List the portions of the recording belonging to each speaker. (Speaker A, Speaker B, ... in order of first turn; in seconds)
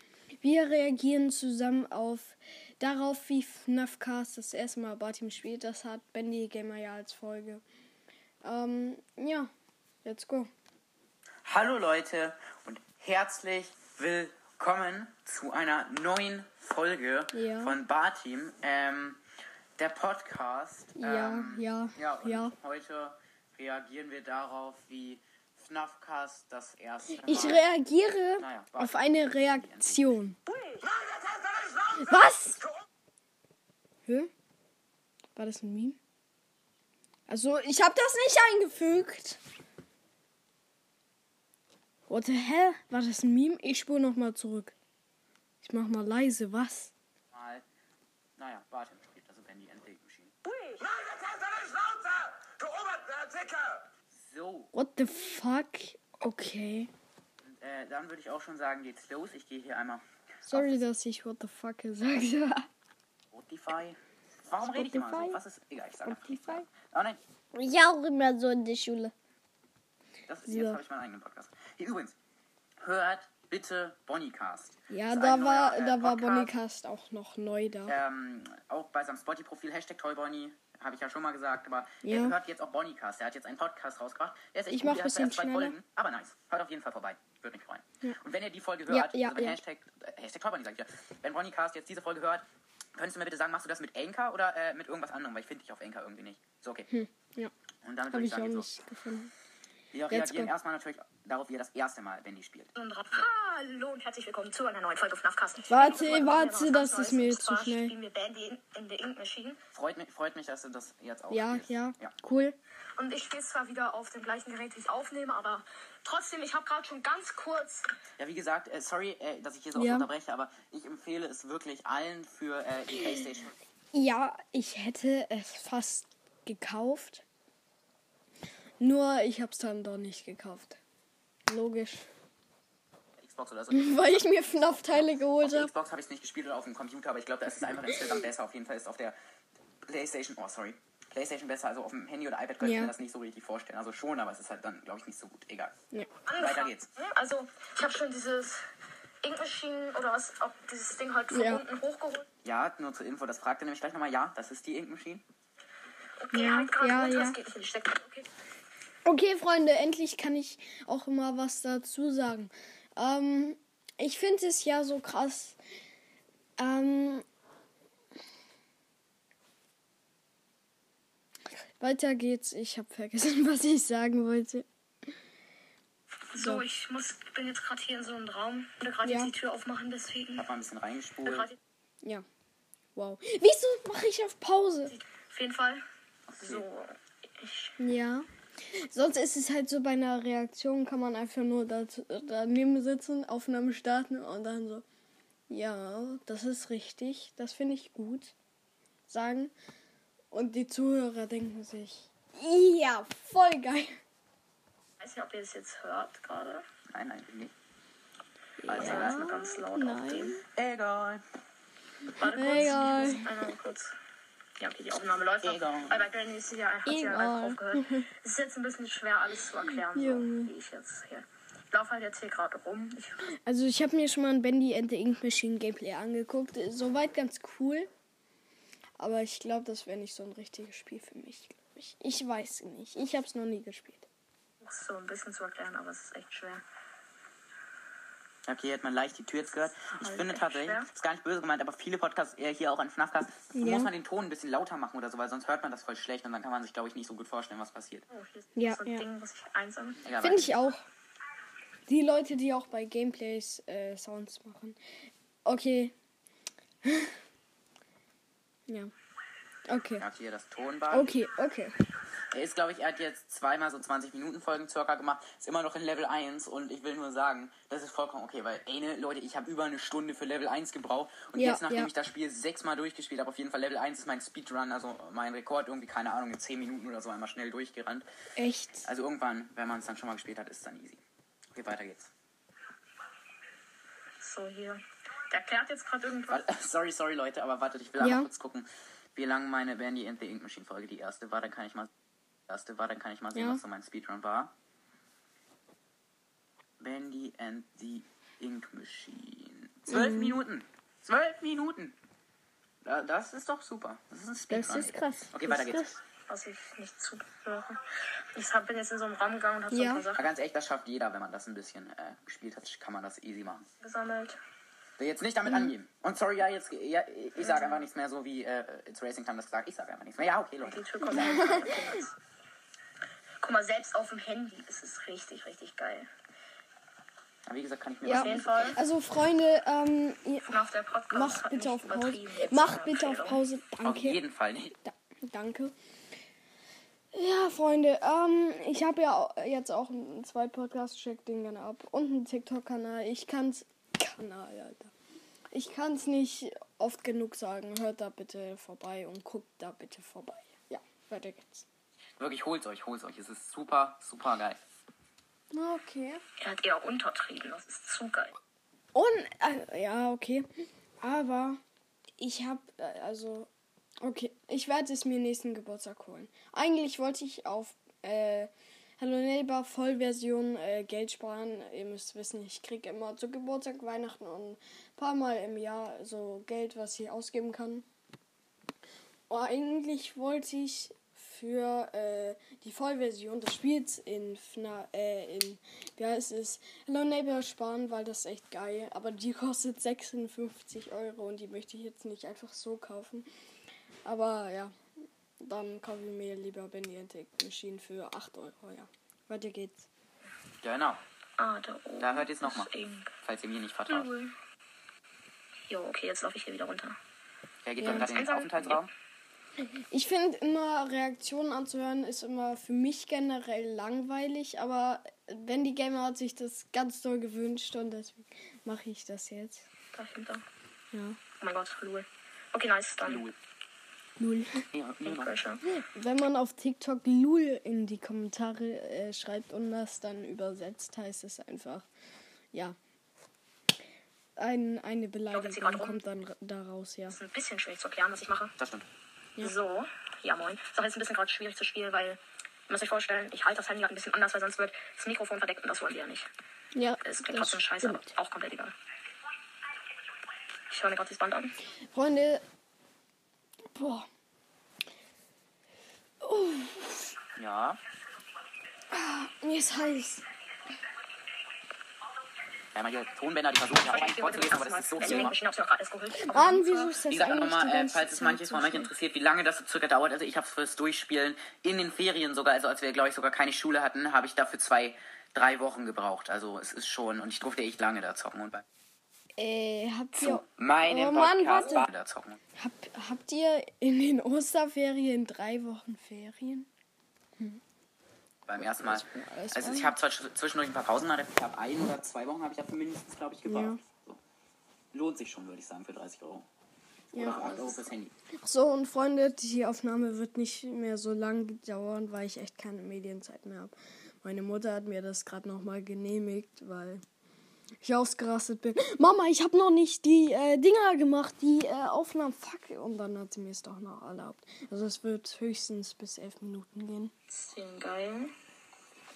Speaker A: 0.4-7.6, 8.4-9.5, 10.0-10.5, 17.3-17.8, 21.0-22.5, 27.1-30.4, 31.7-32.7, 35.4-36.0, 37.3-39.4, 42.1-44.8, 45.6-46.9, 54.7-56.9, 60.5-62.7, 64.6-65.4, 66.0-66.7, 67.5-69.1, 70.5-70.8, 74.9-78.0, 82.0-82.4, 84.7-85.8, 88.9-89.6, 96.9-97.5, 98.1-99.3, 100.1-100.5, 105.7-108.0, 111.3-112.6, 119.8-120.1, 123.9-127.2, 128.8-130.8, 131.5-132.1, 133.7-135.7, 137.8-138.2, 142.6-142.9, 151.3-151.6, 156.3-157.4, 159.1-165.6, 166.6-167.2, 171.8-174.7, 176.4-176.7, 179.1-179.3, 183.0-185.0, 187.8-194.8, 195.5-198.3, 199.1-199.5, 200.3-204.0, 208.6-210.4, 212.2-213.3, 216.9-218.1, 219.7-220.5, 223.3-227.9, 229.0-234.1, 243.5-243.9, 248.6-249.1, 250.2-250.8, 251.9-254.8, 255.4-255.9, 256.9-257.1, 259.7-260.1, 260.9-261.7, 271.4-271.9, 278.4-278.9, 288.0-288.3, 293.3-293.6, 299.9-300.4, 304.5-306.0, 309.7-310.1, 321.1-321.8, 328.0-334.2, 334.8-335.7, 337.1-344.9, 345.5-351.7, 355.5-356.2, 358.9-360.5, 361.0-361.6, 362.2-363.5, 364.0-377.9, 379.3-393.3, 394.1-394.7, 395.4-399.9, 407.8-408.1, 409.9-419.7, 420.9-421.2, 424.2-424.7, 425.7-431.9, 434.4-437.2, 446.7-448.1, 451.9-452.4, 453.7-454.1, 456.2-457.1, 458.9-460.2, 466.2-468.9, 479.4-481.9, 482.6-486.7, 488.6-490.0, 493.5-493.8, 497.1-497.5, 498.4-507.0, 507.8-517.1
Speaker B: 11.4-19.2, 19.8-27.7, 28.4-30.2, 47.3-47.6, 48.4-50.4, 52.6-54.7, 57.4-60.9, 63.3-67.2, 70.3-72.2, 72.8-76.5, 77.9-92.5, 93.0-96.9, 97.8-98.7, 99.9-102.7, 109.7-112.1, 118.2-123.6, 133.2-139.2, 139.9-145.7, 146.3-146.9, 152.4-155.2, 180.4-181.5, 186.3-186.7, 206.9-207.5, 208.7-209.4, 210.5-211.2, 215.4-216.1, 238.5-248.1, 250.0-250.6, 260.0-261.1, 262.3-278.1, 278.9-281.0, 281.6-282.1, 286.3-291.9, 292.5-294.5, 296.8-302.0, 302.9-305.9, 310.1-313.7, 315.0-321.7, 327.5-328.8, 333.8-334.8, 352.2-354.6, 400.6-401.0, 402.0-404.1, 407.6-408.9, 423.0-423.4, 424.7-425.4, 438.6-438.9, 457.4-457.8, 462.7-465.4, 467.1-478.6, 480.2-482.4, 488.5-494.2, 494.9-496.5, 497.1-498.1
Speaker C: 50.5-50.9, 102.8-109.6, 113.0-117.9, 146.3-148.7, 149.2-152.3, 156.2-158.3, 176.3-180.5, 181.2-181.6, 184.9-185.8, 186.4-187.8, 205.0-206.7, 208.8-210.4, 212.1-213.9, 214.6-223.3, 234.6-236.6, 240.0-240.9, 248.1-250.0, 284.2-286.4, 306.3-310.3, 313.8-314.4, 317.4-317.8, 320.6-322.1, 323.4-326.1, 328.1-328.8, 330.5-333.4, 356.4-358.4, 401.4-403.1, 403.9-404.3, 405.7-407.0, 407.8-408.9, 419.9-420.4, 421.4-423.2, 425.1-425.6, 435.3-436.0, 437.1-438.6, 439.4-446.3, 447.0-448.7, 450.7-451.5, 463.9-467.0, 497.1-497.8, 517.3-518.3